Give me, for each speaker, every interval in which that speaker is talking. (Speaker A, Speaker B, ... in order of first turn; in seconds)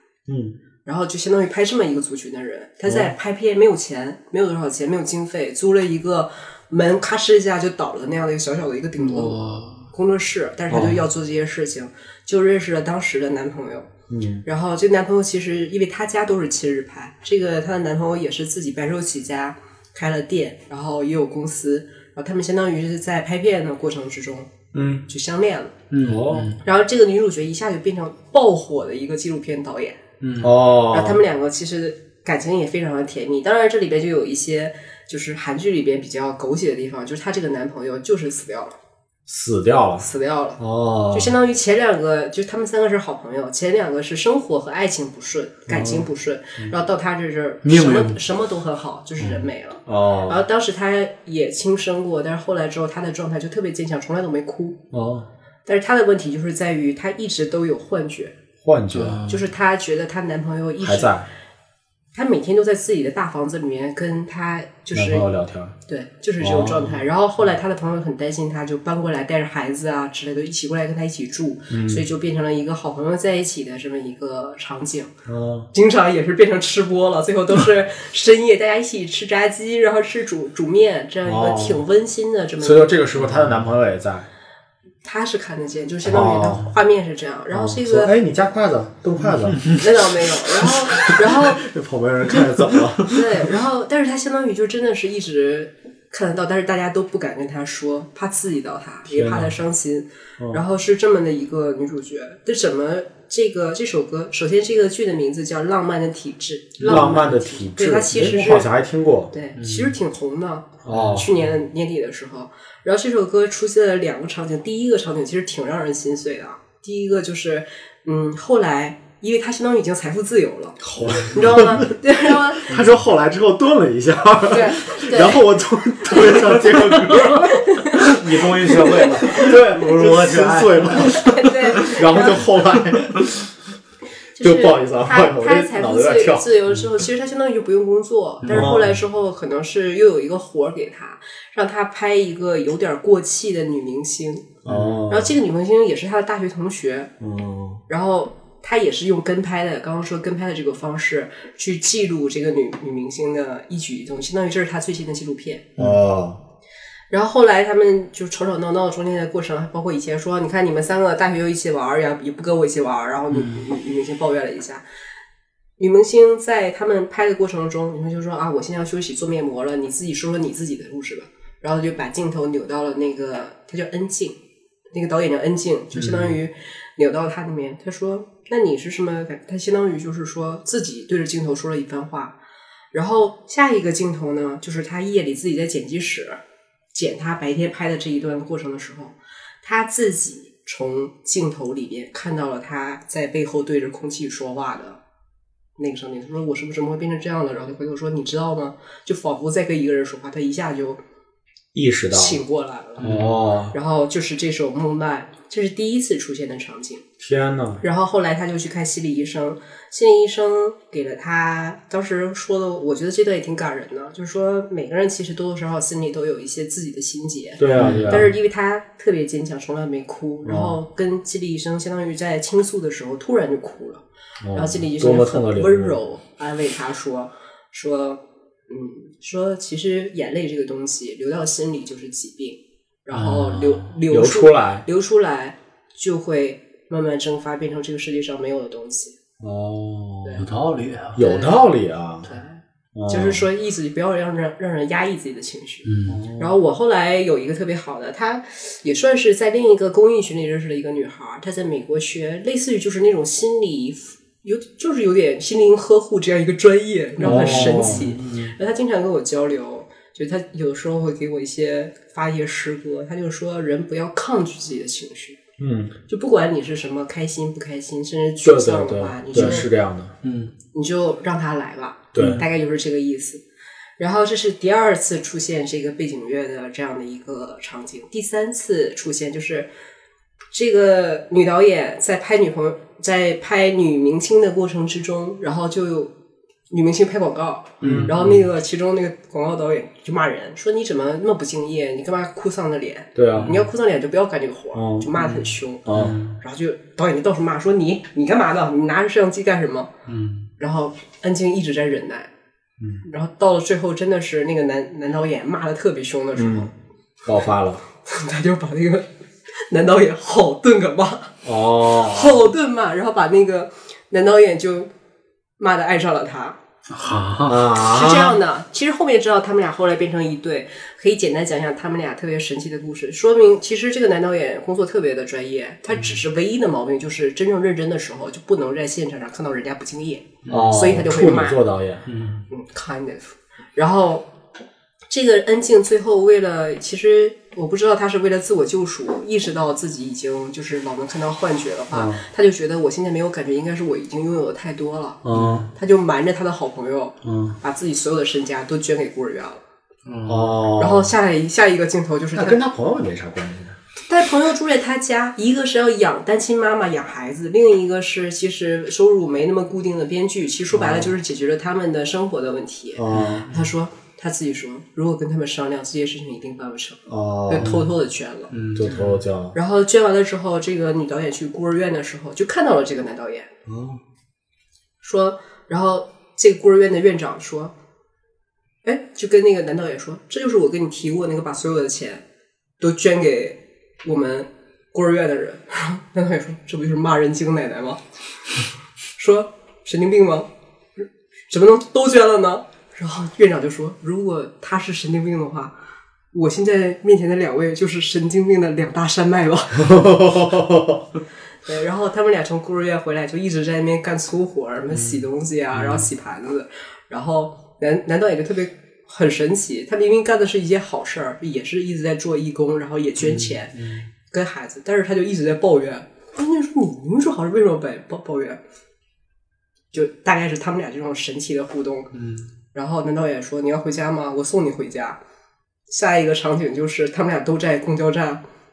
Speaker A: 0.3-0.6, 10.7-11.0, 14.1-14.4, 24.7-25.0, 26.0-26.6, 30.4-31.2, 39.3-40.0, 40.6-41.3, 45.7-46.1, 49.9-50.5, 54.9-55.3, 58.6-59.2, 60.8-61.3, 64.9-65.7, 66.4-67.0, 71.7-72.0, 75.3-75.7, 81.2-81.8, 82.6-84.3, 86.0-86.7, 87.5-89.8, 91.0-93.2, 99.1-99.5, 106.8-109.3, 110.8-111.3, 120.8-122.0, 122.6-127.7, 128.9-133.3, 134.4-136.6, 138.5-138.8, 144.6-145.3, 147.2-147.8, 155.8-156.4, 201.7-202.4, 203.0-203.7, 207.2-207.8, 217.6-218.3, 220.4-220.8, 224.4-225.9, 234.1-234.8, 239.4-240.4, 241.1-242.3, 242.9-243.4, 246.1-246.6, 257.2-258.1, 265.6-265.9, 268.4-270.1, 272.1-272.4, 287.8-288.1, 293.1-293.6, 294.7-295.1, 295.9-296.2, 306.4-306.7, 307.2-307.8, 311.4-312.4, 317.4-318.4, 330.5-332.1, 341.9-342.2, 345.2-345.7, 347.2-347.5, 350.3-351.1, 352.3-353.8, 362.9-363.5, 367.1-367.7, 368.7-369.6, 373.7-374.0, 399.8-401.0
Speaker B: 0.8-9.4, 9.9-13.9, 14.4-24.5, 25.1-25.7, 26.6-30.0, 30.9-38.8, 40.0-40.6, 41.1-54.8, 55.6-58.3, 59.3-61.1, 62.1-65.3, 65.9-75.1, 75.7-83.1, 85.0-88.1, 89.7-91.6, 93.0-108.7, 109.3-122.7, 124.5-125.4, 126.0-126.6, 127.3-128.2, 128.8-129.4, 131.2-132.4, 134.3-144.5, 145.1-147.1, 147.9-155.7, 157.1-164.8, 165.8-174.4, 174.9-182.3, 182.9-186.4, 186.9-195.0, 195.8-201.0, 202.1-203.2, 203.7-207.0, 207.8-239.2, 241.2-241.7, 242.3-265.4, 266.1-269.7, 270.7-273.4, 274.0-279.7, 280.5-286.1, 286.7-295.9, 296.4-299.9, 300.6-302.3, 303.0-306.7, 308.1-309.1, 309.7-311.3, 311.9-314.9, 315.6-316.6, 317.8-331.6, 332.5-334.2, 335.1-345.2, 345.7-349.6, 350.8-352.6, 354.1-368.5, 369.5-373.5, 375.0-377.7, 378.8-382.2, 382.8-388.0, 389.2-390.5, 391.5-395.8, 396.3-400.2, 401.6-418.6, 419.9-422.1, 422.7-425.2, 425.9-428.4
Speaker C: 9.0-9.9, 25.9-26.6, 30.2-30.6, 47.6-48.2, 58.9-59.4, 83.2-83.6, 106.8-107.2, 109.5-110.0, 110.9-111.3, 127.9-131.5, 138.4-138.9, 144.7-145.0, 163.3-163.6, 176.0-176.3, 203.0-203.4, 217.8-218.3, 233.1-233.9, 240.3-241.2, 245.8-246.2, 257.2-258.5, 269.3-269.6, 270.2-270.5, 272.1-272.4, 287.8-288.4, 293.3-293.6, 295.2-296.4, 300.1-300.5, 316.9-317.7, 325.9-326.2, 330.4-330.8, 332.1-332.4, 345.3-345.7, 350.1-350.6, 363.1-363.7, 367.6-367.9, 368.5-369.2, 404.9-405.2, 405.7-406.0, 413.2-414.1, 422.1-422.5